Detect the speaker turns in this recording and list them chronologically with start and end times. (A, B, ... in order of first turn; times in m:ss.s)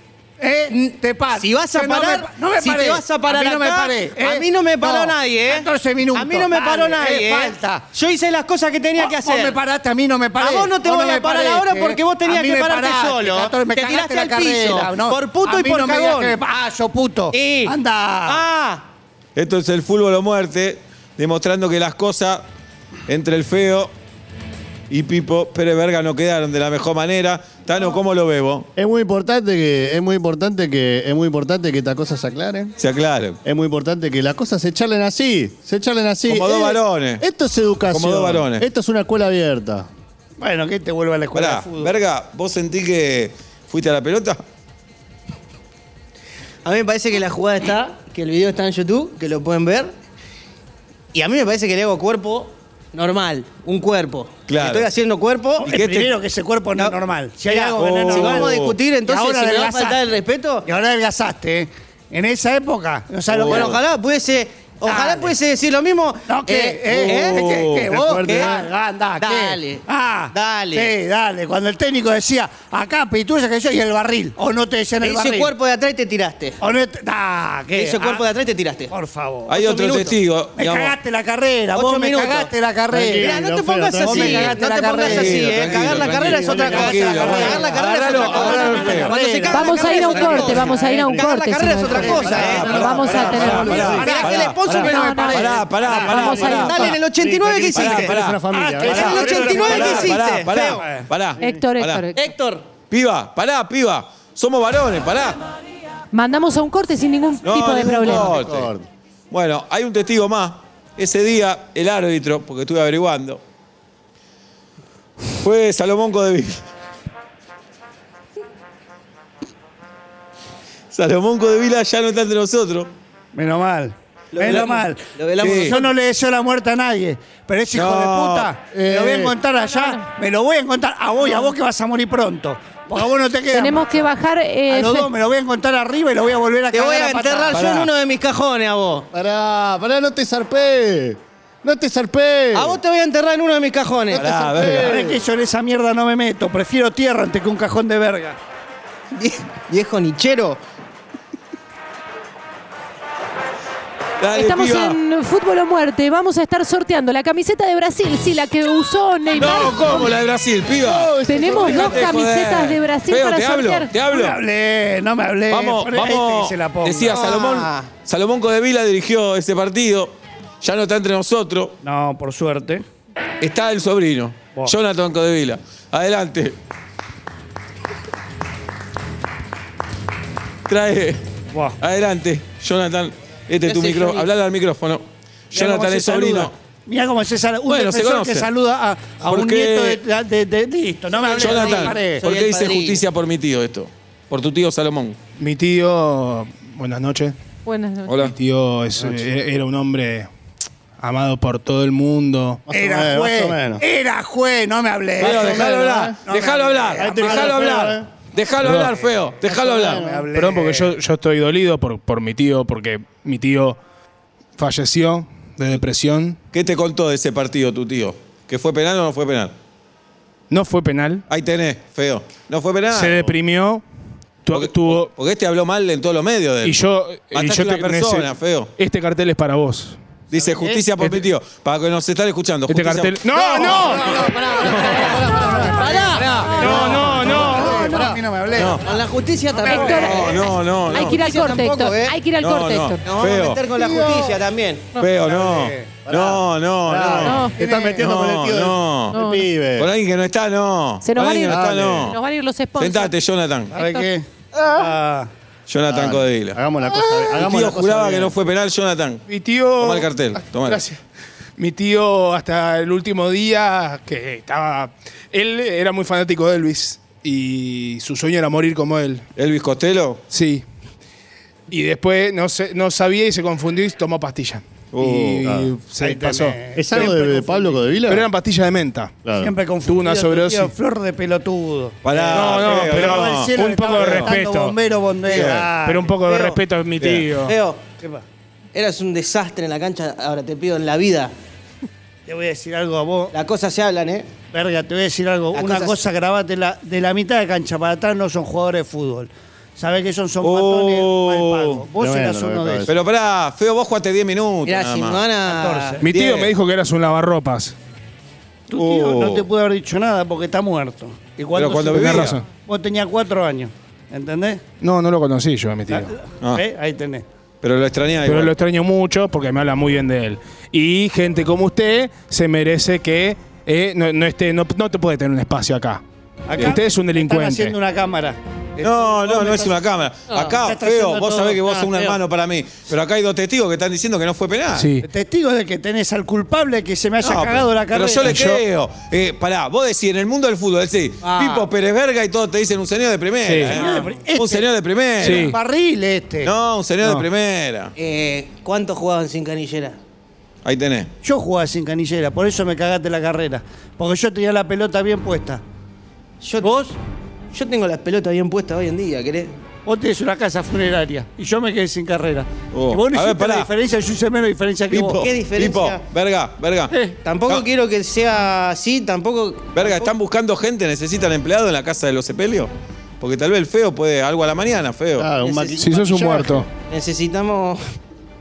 0:00.4-0:07.9 A
0:00.7-0:09.6 B
0:09.0-0:18.4 A
0:10.4-0:16.4 B
0:17.3-0:17.7 B
0:18.3-0:18.8 B
0:19.4-0:22.4 C
0:23.1-0:23.9 C
0:24.9-0:28.7 C
0:28.8-0:32.7 D
0:32.8-0:33.4 C
0:33.4-0:39.9 D
0:36.3-0:37.2 C
0:37.9-0:38.6 C
0:40.4-0:41.9 A
0:41.3-0:44.4 C
0:46.6-0:49.9 B
0:51.1-0:55.7 B
0:54.5-0:54.9 C
0:55.6-1:00.0 A
0:55.6-0:56.1 C
0:57.4-1:00.6 B
0:58.1-0:58.7 C
1:00.6-1:03.8 A
1:03.3-1:03.8 C
1:03.4-1:08.6 B
1:04.8-1:05.3 A
1:06.3-1:15.5 A
1:07.4-1:08.6 D
1:09.2-1:10.9 B
1:15.0-1:16.6 B
1:16.6-1:18.2 A
1:17.7-1:18.9 B
1:18.9-1:19.5 A
1:19.5-1:21.0 C
1:19.5-1:20.2 B
1:20.6-1:23.3 A
1:21.7-1:22.5 B
1:22.9-1:24.6 D
1:23.2-1:38.2 B
1:24.0-1:31.0 A
1:25.0-1:29.1 C
1:29.5-1:33.9 E
1:31.9-1:36.2 A
1:32.2-1:36.9 C
1:33.5-1:33.9 D
1:34.6-1:36.9 E
1:35.8-1:40.1 D
1:37.6-1:38.4 C
1:38.5-1:41.1 A
1:38.8-1:40.8 B
1:39.0-1:42.0 C
1:41.4-1:41.7 D
1:41.4-1:42.3 E
1:42.1-1:42.6 B
1:42.9-1:45.4 C
1:46.1-1:48.3 E
1:47.4-1:48.7 C
1:47.9-1:48.9 D
1:49.3-1:53.4 C
1:55.4-1:56.6 C
2:00.9-2:02.9 C
2:03.3-2:14.1 A
2:04.3-2:05.8 B
2:05.4-2:05.8 C
2:07.7-2:08.5 C
2:08.7-2:09.4 D
2:09.6-2:10.0 E
2:13.5-2:15.1 E
2:14.7-2:17.9 A
2:16.7-2:19.1 B
2:19.1-2:22.8 D
2:22.5-2:24.6 B
2:24.1-2:25.0 C
2:24.2-2:25.2 D
2:24.6-2:28.4 A
2:29.1-2:30.6 B
2:34.2-2:35.0 C
2:34.3-2:40.2 E
2:39.3-2:44.4 C
2:41.0-2:41.9 D
2:41.2-2:43.9 E
2:44.1-2:47.2 A
2:45.5-2:51.7 C
2:47.1-2:47.9 B
2:51.8-2:52.8 A
2:53.4-2:56.6 C
3:00.7-3:01.2 C
3:01.5-3:01.8 A
3:01.8-3:06.5 C
3:03.6-3:04.3 B
3:05.5-3:12.2 A
3:07.7-3:08.5 C
3:09.2-3:10.0 C
3:11.2-3:13.0 B
3:11.3-3:15.2 C
3:15.4-3:17.4 F
3:17.6-3:18.2 E
3:18.0-3:18.3 C
3:18.1-3:20.3 F
3:21.0-3:22.6 F
3:22.7-3:23.8 D
3:22.7-3:27.8 A
3:25.2-3:30.0 C
3:25.2-3:26.2 D
3:27.0-3:28.1 D
3:28.6-3:29.0 F
3:28.7-3:30.9 A
3:29.8-3:30.3 D
3:30.3-3:33.8 F
3:34.6-3:36.4 F
3:36.5-3:39.5 C
3:40.5-3:41.2 F
3:41.3-3:43.3 C
3:42.9-3:43.8 F
3:44.4-3:45.1 F
3:44.5-3:46.8 C
3:46.6-3:50.0 F
3:47.3-3:48.7 C
3:50.3-3:55.2 C
3:50.3-3:50.8 A
3:52.7-3:54.2 F
3:53.5-3:58.9 A
3:54.2-3:57.0 B
3:55.5-3:55.8 D
3:56.6-3:57.8 F
3:56.6-3:58.2 D
3:58.5-3:58.8 C
3:58.8-4:02.2 B
3:59.6-4:00.3 A
3:59.6-4:03.0 E
3:59.9-4:01.2 C
4:02.3-4:03.6 C
4:03.0-4:04.9 B
4:03.9-4:04.3 A
4:05.0-4:07.5 C
4:05.0-4:05.9 A
4:06.0-4:09.9 D
4:07.2-4:07.6 E
4:07.5-4:08.2 A
4:08.0-4:09.2 C
4:09.1-4:09.5 E
4:09.8-4:12.2 C
4:11.0-4:13.2 E
4:11.4-4:12.2 D
4:12.8-4:13.7 C
4:13.7-4:14.1 E
4:13.7-4:15.3 A
4:15.7-4:16.6 C
4:15.9-4:18.4 D
4:16.9-4:17.3 E
4:17.3-4:19.2 C
4:19.3-4:21.0 F
4:19.8-4:20.8 C
4:21.6-4:29.2 F
4:29.4-4:30.2 C
4:30.3-4:30.6 F
4:31.7-4:36.6 F
4:34.9-4:35.7 D
4:36.0-4:37.8 A
4:36.8-4:38.3 D
4:38.1-4:39.1 F
4:39.2-4:39.5 D
4:39.4-4:46.1 A
4:39.8-4:40.7 F
4:42.0-4:44.3 C
4:42.3-4:44.8 F
4:45.3-4:45.7 C
4:45.8-4:47.5 F
4:46.1-4:46.6 B
4:47.0-4:47.2 C
4:47.1-4:47.8 B
4:48.0-4:48.2 A
4:48.7-4:51.3 B
4:52.3-4:53.3 A
4:53.3-4:54.3 B
4:54.5-5:02.9 A
4:55.5-4:56.0 B
5:00.4-5:01.8 C
5:02.0-5:02.9 D
5:02.8-5:05.2 C
5:04.6-5:06.4 B
5:05.4-5:06.1 A
5:06.0-5:07.7 F
5:08.7-5:14.6 A
5:08.7-5:09.4 C
5:11.5-5:12.4 C
5:11.9-5:12.4 F
5:14.8-5:16.1 F
5:15.9-5:17.2 A
5:17.6-5:18.5 C
5:18.2-5:26.0 F
5:26.5-5:30.0 A
5:26.6-5:27.7 F
5:28.8-5:34.9 C
5:30.6-5:31.9 A
5:31.8-5:32.2 B
5:34.7-5:35.0 F
5:35.0-5:38.6 A
5:37.2-5:45.5 C
5:41.2-5:41.6 A
5:43.4-5:43.8 F
5:43.6-5:44.6 A
5:43.8-5:44.1 B
5:45.2-5:45.6 F
5:45.2-5:46.5 A
5:46.4-5:47.9 C
5:48.0-5:50.0 B
5:50.6-5:51.1 C
5:51.2-5:55.6 A
5:56.4-5:56.7 B
5:56.6-5:57.0 A
5:57.5-5:59.5 B
5:59.8-6:05.2 A
6:02.7-6:03.7 C
6:04.9-6:06.9 C
6:05.0-6:06.0 B
6:07.2-6:10.1 B
6:09.7-6:15.3 C
6:15.2-6:16.7 D
6:15.4-6:15.9 B
6:15.8-6:16.7 F
6:16.9-6:17.8 B